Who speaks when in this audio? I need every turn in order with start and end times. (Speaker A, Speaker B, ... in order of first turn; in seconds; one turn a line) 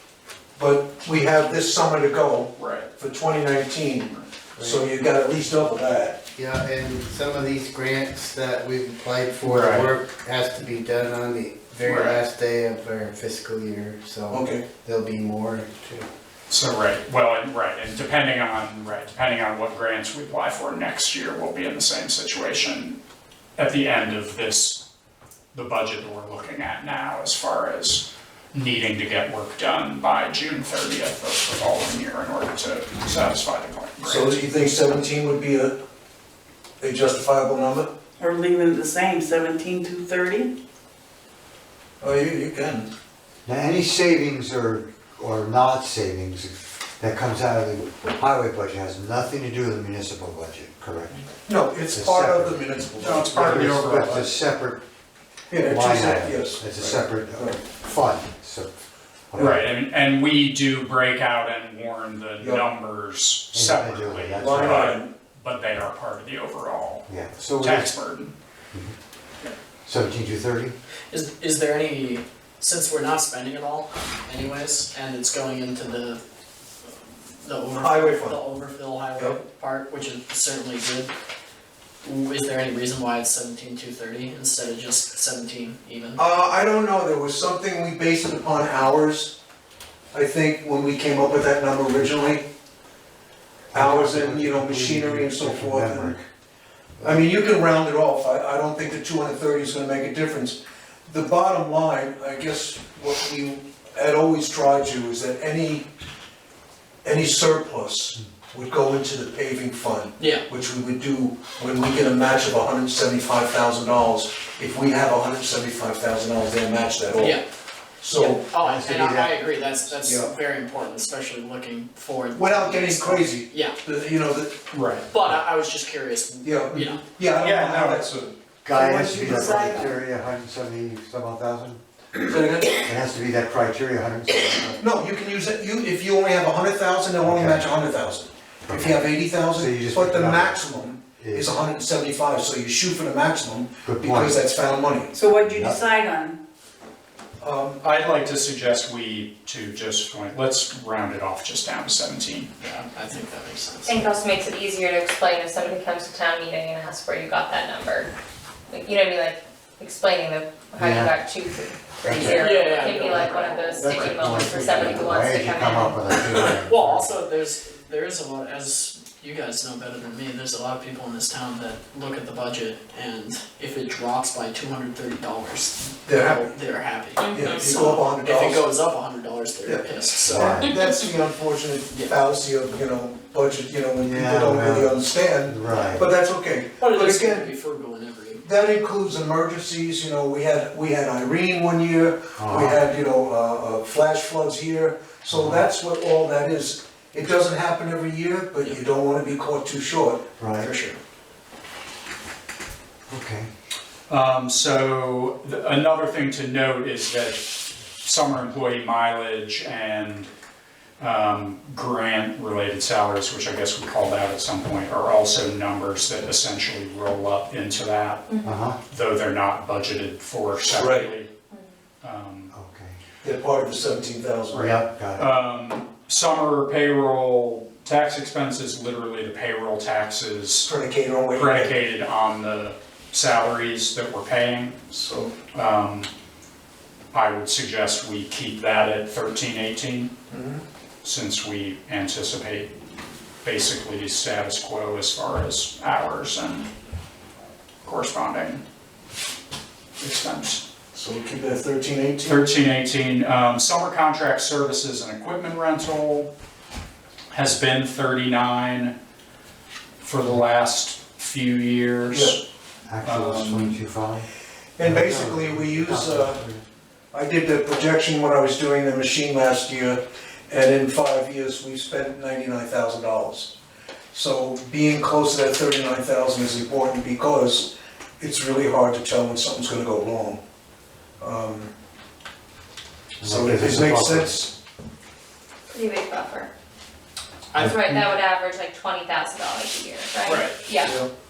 Speaker A: 0.6-6.2
Speaker B: 2.5-2.9
Speaker C: 4.6-4.8
Speaker C: 6.4-16.1
Speaker B: 9.4-9.9
Speaker B: 11.8-12.2
Speaker A: 14.3-14.7
Speaker B: 16.5-23.0
Speaker B: 23.6-24.8
Speaker B: 25.5-34.4
Speaker A: 34.0-35.7
Speaker A: 36.8-37.9
Speaker D: 38.2-40.5
Speaker A: 42.0-42.9
Speaker E: 43.5-51.2
Speaker A: 51.5-54.1
Speaker E: 51.9-54.8
Speaker B: 53.0-54.3
Speaker A: 55.5-57.6
Speaker E: 55.6-58.7
Speaker E: 59.3-59.7
Speaker B: 59.4-67.1
Speaker A: 62.4-62.6
Speaker E: 63.5-64.9
Speaker A: 64.4-65.1
Speaker E: 67.1-67.9
Speaker B: 67.6-68.3
Speaker E: 69.8-70.8
Speaker F: 71.1-76.2
Speaker F: 77.4-81.1
Speaker A: 77.7-78.4
Speaker F: 82.0-86.2
Speaker A: 86.1-89.3
Speaker A: 90.1-92.5
Speaker E: 93.7-96.2
Speaker A: 93.8-96.2
Speaker A: 97.0-105.9
Speaker A: 107.0-117.4
Speaker F: 110.2-110.5
Speaker F: 117.2-117.5
Speaker A: 118.0-118.5
Speaker F: 118.1-123.8
Speaker E: 118.5-119.4
Speaker A: 120.0-120.3
Speaker A: 122.3-124.6
Speaker B: 124.7-125.1
Speaker F: 125.1-127.0
Speaker A: 126.4-130.0
Speaker B: 127.3-128.0
Speaker E: 128.6-131.8
Speaker A: 132.2-132.9
Speaker E: 132.7-134.8
Speaker A: 134.8-145.1
Speaker E: 137.2-137.7
Speaker E: 138.7-141.6
Speaker E: 143.8-144.4
Speaker D: 145.1-146.4
Speaker E: 145.4-145.8
Speaker A: 147.4-147.8
Speaker B: 147.8-152.5
Speaker F: 152.6-154.1
Speaker G: 153.8-158.1
Speaker G: 158.7-166.0
Speaker E: 160.8-161.2
Speaker E: 162.0-162.4
Speaker F: 162.1-165.1
Speaker E: 163.8-167.1
Speaker F: 166.1-180.7
Speaker A: 176.0-176.5
Speaker G: 177.2-177.6
Speaker A: 177.3-178.6
Speaker A: 179.6-187.5
Speaker E: 180.2-180.7
Speaker E: 184.0-186.0
Speaker F: 185.7-186.0
Speaker F: 186.8-188.4
Speaker A: 188.4-200.2
Speaker E: 192.4-192.8
Speaker E: 195.3-195.7
Speaker E: 200.4-200.7
Speaker F: 200.6-201.0
Speaker E: 203.1-203.5
Speaker B: 204.1-210.3
Speaker B: 211.0-218.4
Speaker G: 218.3-218.7
Speaker E: 218.4-218.8
Speaker B: 218.9-221.3
Speaker A: 220.7-221.1
Speaker B: 222.0-222.5
Speaker E: 222.5-223.0
Speaker A: 223.2-224.8
Speaker E: 224.5-225.3
Speaker B: 224.6-230.7
Speaker A: 230.7-231.7
Speaker B: 231.3-234.8
Speaker A: 234.9-235.3
Speaker B: 235.5-236.1
Speaker B: 237.1-240.1
Speaker A: 240.3-240.6
Speaker B: 241.0-242.7
Speaker B: 243.4-246.7
Speaker B: 247.8-248.6
Speaker B: 250.0-250.6
Speaker A: 250.9-252.4
Speaker B: 252.3-256.3
Speaker B: 257.3-258.9
Speaker B: 260.0-262.4
Speaker A: 262.1-262.4
Speaker E: 262.9-264.3
Speaker B: 263.0-263.7
Speaker A: 264.8-266.4
Speaker E: 264.8-266.6
Speaker A: 267.1-273.5
Speaker A: 274.1-280.4
Speaker A: 281.2-281.7
Speaker E: 283.2-284.4
Speaker A: 283.2-284.5
Speaker G: 285.7-286.5
Speaker G: 287.5-291.0
Speaker F: 290.2-290.6
Speaker A: 290.8-291.1